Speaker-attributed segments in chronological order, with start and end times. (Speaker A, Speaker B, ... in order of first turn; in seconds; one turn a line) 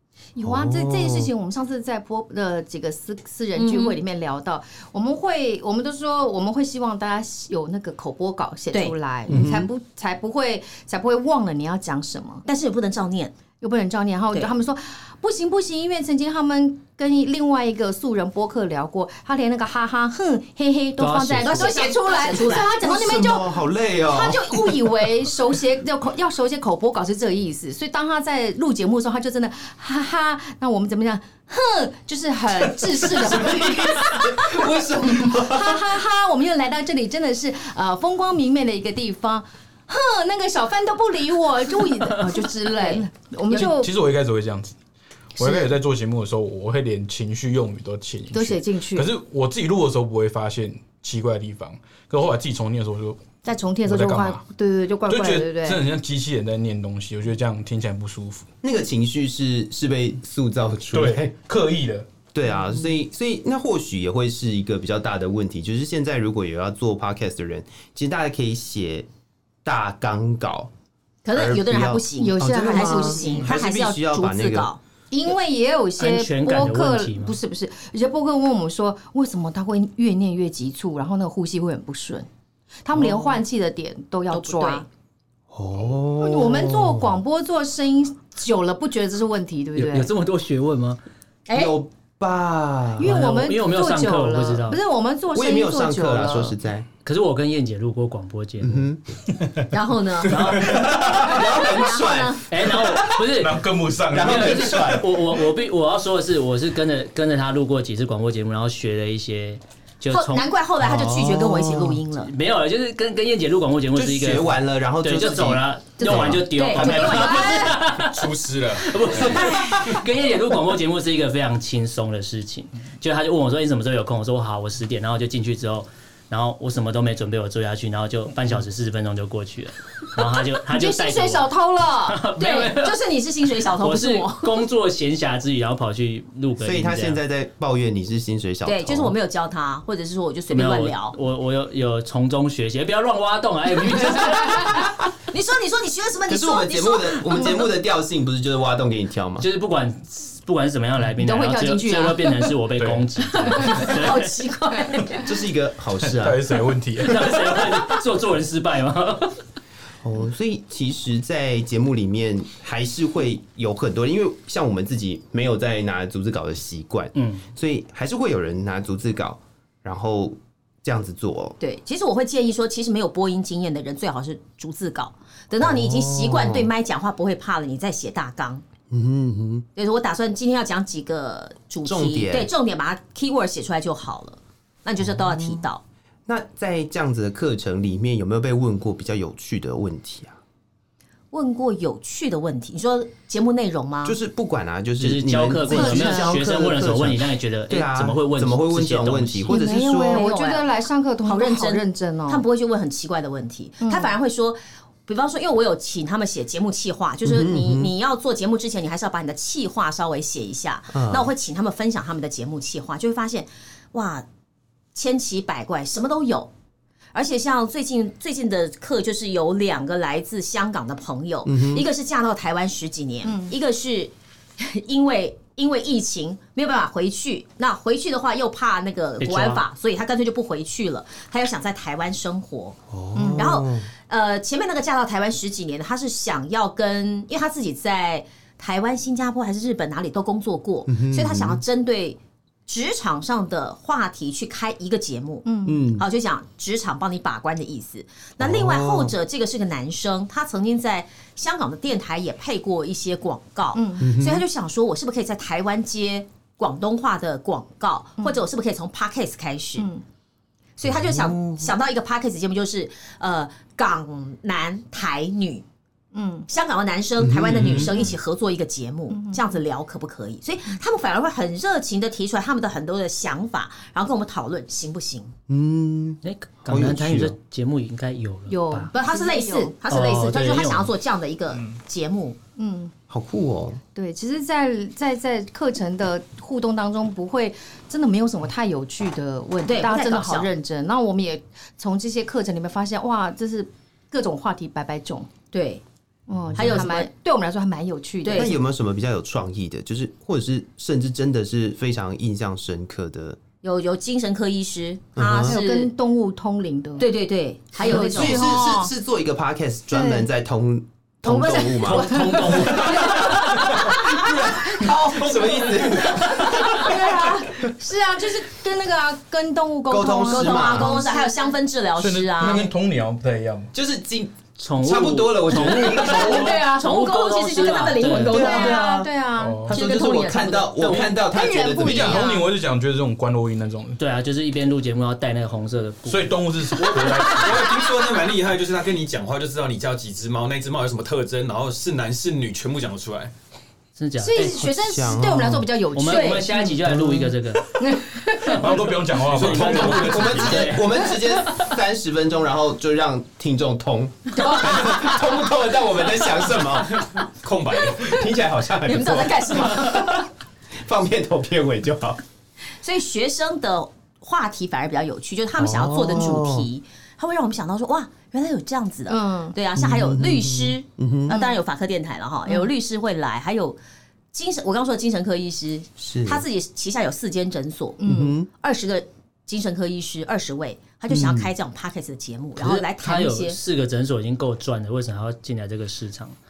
Speaker A: 0.3-12.4
Speaker B: 0.4-1.3
Speaker C: 3.6-4.0
Speaker B: 9.3-9.7
Speaker C: 12.5-13.3
Speaker A: 13.6-34.7
Speaker D: 21.0-21.8
Speaker C: 21.4-22.8
Speaker B: 22.7-25.1
Speaker B: 33.0-36.0
Speaker A: 35.2-43.9
Speaker C: 42.8-43.1
Speaker E: 43.5-44.8
Speaker E: 45.4-53.2
Speaker A: 45.4-45.7
Speaker A: 48.3-49.1
Speaker A: 53.5-55.9
Speaker E: 53.8-54.4
Speaker E: 55.1-58.5
Speaker B: 58.6-61.3
Speaker E: 60.9-62.1
Speaker B: 62.3-69.1
Speaker B: 69.6-70.7
Speaker C: 71.2-74.8
Speaker B: 71.3-74.7
Speaker A: 72.2-73.5
Speaker A: 75.1-82.3
Speaker D: 76.0-77.4
Speaker A: 82.8-84.9
Speaker C: 84.3-84.9
Speaker B: 85.5-87.2
Speaker A: 86.2-90.1
Speaker D: 89.8-91.0
Speaker C: 91.5-91.8
Speaker B: 91.5-93.2
Speaker A: 93.0-96.5
Speaker D: 93.0-94.8
Speaker B: 95.3-96.9
Speaker D: 97.0-98.9
Speaker B: 98.6-99.0
Speaker C: 99.7-100.5
Speaker D: 100.2-100.9
Speaker B: 100.5-102.9
Speaker E: 100.7-101.0
Speaker C: 101.3-102.5
Speaker D: 102.5-110.5
Speaker E: 103.1-105.0
Speaker B: 104.1-105.1
Speaker C: 110.1-112.3
Speaker B: 110.8-112.0
Speaker D: 112.2-118.3
Speaker B: 113.9-117.2
Speaker C: 116.0-117.8
Speaker F: 118.0-119.2
Speaker D: 118.8-131.5
Speaker C: 119.1-120.0
Speaker A: 130.7-132.2
Speaker D: 132.1-133.0
Speaker C: 132.3-134.6
Speaker D: 133.8-137.2
Speaker B: 136.6-139.1
Speaker C: 138.7-141.2
Speaker D: 140.5-144.9
Speaker C: 145.3-147.7
Speaker B: 146.3-149.5
Speaker D: 149.4-154.3
Speaker A: 151.2-152.5
Speaker E: 152.8-153.6
Speaker C: 153.5-155.3
Speaker A: 153.7-153.9
Speaker B: 155.2-156.6
Speaker E: 156.0-157.8
Speaker D: 157.0-159.4
Speaker B: 160.0-171.6
Speaker D: 167.2-167.4
Speaker C: 171.6-178.7
Speaker B: 175.6-176.7
Speaker B: 178.9-179.7
Speaker C: 179.8-185.8
Speaker B: 181.8-182.5
Speaker B: 185.1-185.7
Speaker B: 186.3-190.4
Speaker C: 191.3-194.2
Speaker B: 194.0-200.3
Speaker D: 195.0-199.6
Speaker A: 195.7-196.4
Speaker A: 199.5-202.4
Speaker C: 199.9-200.7
Speaker C: 201.2-214.3
Speaker A: 203.8-204.1
Speaker B: 207.2-207.9
Speaker B: 210.9-211.3
Speaker C: 214.9-216.5
Speaker C: 217.1-232.8
Speaker B: 221.5-221.9
Speaker A: 223.2-223.6
Speaker D: 229.2-229.6
Speaker B: 232.9-233.9
Speaker A: 233.2-233.5
Speaker C: 233.3-259.9
Speaker B: 240.9-241.6
Speaker A: 245.4-245.8
Speaker B: 245.7-246.1
Speaker B: 248.4-249.2
Speaker A: 253.8-254.1
Speaker B: 254.0-254.4
Speaker A: 258.2-258.4
Speaker A: 259.8-260.0
Speaker C: 260.8-265.6
Speaker B: 260.9-261.7
Speaker A: 266.1-266.5
Speaker C: 266.5-275.3
Speaker B: 267.2-268.1
Speaker F: 267.5-267.8
Speaker A: 269.1-269.5
Speaker B: 275.5-277.4
Speaker D: 276.2-278.9
Speaker A: 278.5-279.7
Speaker C: 278.9-282.4
Speaker D: 279.9-280.9
Speaker A: 282.6-282.9
Speaker B: 283.1-283.8
Speaker A: 283.9-295.3
Speaker C: 289.6-290.5
Speaker C: 295.5-295.8
Speaker A: 296.3-298.5
Speaker C: 296.6-297.1
Speaker C: 298.2-298.5
Speaker B: 298.3-303.4
Speaker C: 303.6-305.9
Speaker B: 305.2-305.6
Speaker A: 305.5-307.1
Speaker C: 307.0-308.7
Speaker A: 307.8-308.9
Speaker B: 307.8-312.6
Speaker A: 309.9-310.3
Speaker C: 311.2-312.0
Speaker D: 311.8-313.8
Speaker A: 312.1-315.5
Speaker B: 314.3-316.9
Speaker F: 315.0-316.2
Speaker A: 316.3-321.4
Speaker B: 319.9-321.0
Speaker C: 320.3-322.7
Speaker E: 322.0-323.7
Speaker B: 322.4-322.7
Speaker B: 323.7-326.6
Speaker D: 324.6-328.5
Speaker C: 325.9-328.9
Speaker A: 326.2-327.0
Speaker A: 328.3-329.8
Speaker E: 328.3-329.8
Speaker B: 329.7-332.3
Speaker C: 329.7-331.1
Speaker A: 331.0-332.5
Speaker E: 331.9-334.0
Speaker D: 334.0-336.4
Speaker E: 336.1-337.7
Speaker F: 336.8-343.3
Speaker D: 344.0-344.6
Speaker A: 344.2-347.0
Speaker B: 344.4-345.7
Speaker D: 345.9-347.8
Speaker C: 346.1-346.5
Speaker A: 347.7-348.8
Speaker D: 348.4-348.7
Speaker E: 348.4-350.4
Speaker F: 349.2-350.8
Speaker D: 349.4-350.8
Speaker B: 349.9-357.2
Speaker A: 354.4-355.1
Speaker C: 354.5-355.0
Speaker F: 356.7-358.2
Speaker B: 357.9-362.2
Speaker C: 358.8-360.2
Speaker C: 362.8-373.8
Speaker B: 365.6-366.7
Speaker A: 369.1-369.6
Speaker B: 369.8-371.4
Speaker A: 371.3-371.6
Speaker C: 374.3-383.6
Speaker B: 376.0-376.4
Speaker A: 378.0-378.4
Speaker B: 378.1-378.5
Speaker B: 381.1-381.5
Speaker D: 382.6-386.4